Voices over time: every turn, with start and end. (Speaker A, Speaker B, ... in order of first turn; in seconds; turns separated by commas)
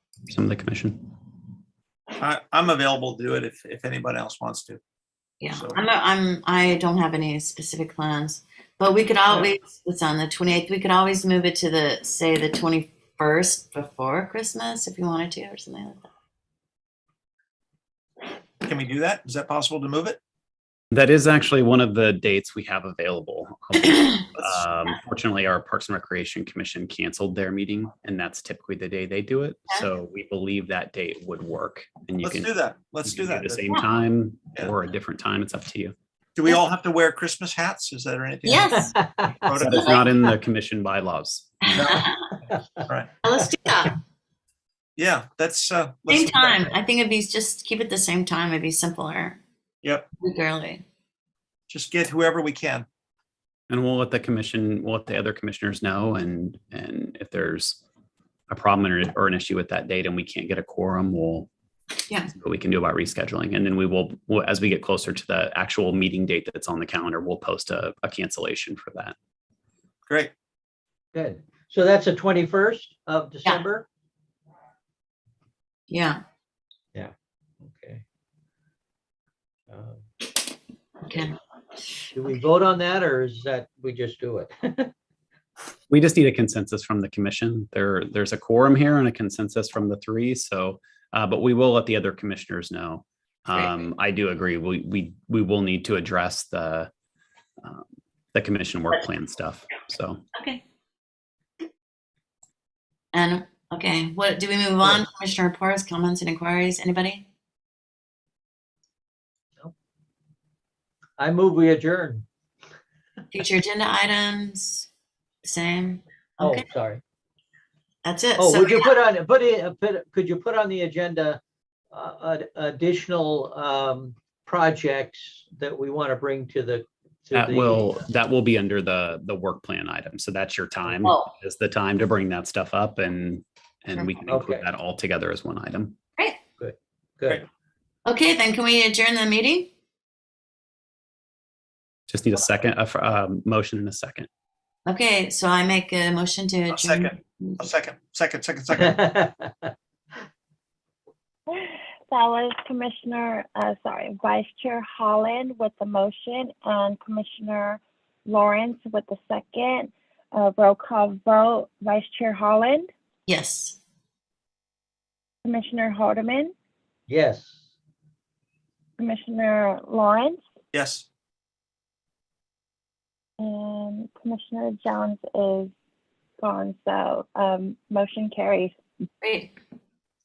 Speaker A: 0.3-1.1, Speaker B: 2.2-4.8, Speaker C: 5.4-16.1, Speaker B: 5.4-5.8, Speaker B: 18.6-20.2, Speaker A: 20.9-32.5, Speaker B: 24.4-24.6, Speaker B: 32.2-33.8, Speaker A: 33.0-35.9, Speaker B: 36.4-38.8, Speaker C: 38.4-39.0, Speaker D: 38.7-39.3, Speaker B: 39.4-40.0, Speaker A: 39.6-41.9, Speaker C: 39.7-40.0, Speaker B: 41.7-42.1, Speaker C: 41.8-42.3, Speaker C: 43.2-44.0, Speaker B: 45.0-46.7, Speaker C: 46.1-49.4, Speaker C: 50.2-50.8, Speaker B: 51.7-52.9, Speaker A: 53.7-57.8, Speaker A: 58.5-61.5, Speaker A: 62.3-69.1, Speaker D: 71.1-73.8, Speaker C: 75.9-76.2, Speaker D: 76.9-78.0, Speaker D: 79.7-80.0, Speaker C: 81.1-81.4, Speaker D: 82.1-84.9, Speaker A: 85.9-96.9, Speaker C: 93.5-93.8, Speaker A: 97.6-100.2, Speaker C: 100.3-100.6, Speaker C: 103.1-107.2, Speaker D: 111.2-112.2, Speaker C: 113.3-114.9, Speaker C: 115.4-116.7, Speaker D: 116.4-117.0, Speaker C: 118.0-118.9, Speaker D: 118.4-121.4, Speaker D: 121.9-128.0, Speaker A: 127.3-136.0, Speaker C: 131.0-131.3, Speaker C: 133.9-134.2, Speaker D: 134.3-134.7, Speaker D: 136.6-137.4, Speaker C: 138.1-139.7, Speaker A: 142.1-144.3, Speaker C: 144.8-147.6, Speaker B: 146.7-149.0, Speaker D: 148.7-149.7, Speaker E: 151.5-162.9, Speaker C: 163.3-163.8, Speaker E: 165.4-166.5, Speaker D: 167.1-167.6, Speaker E: 169.0-170.4, Speaker B: 170.7-171.1, Speaker E: 173.4-175.7, Speaker E: 176.4-178.7, Speaker C: 179.2-179.5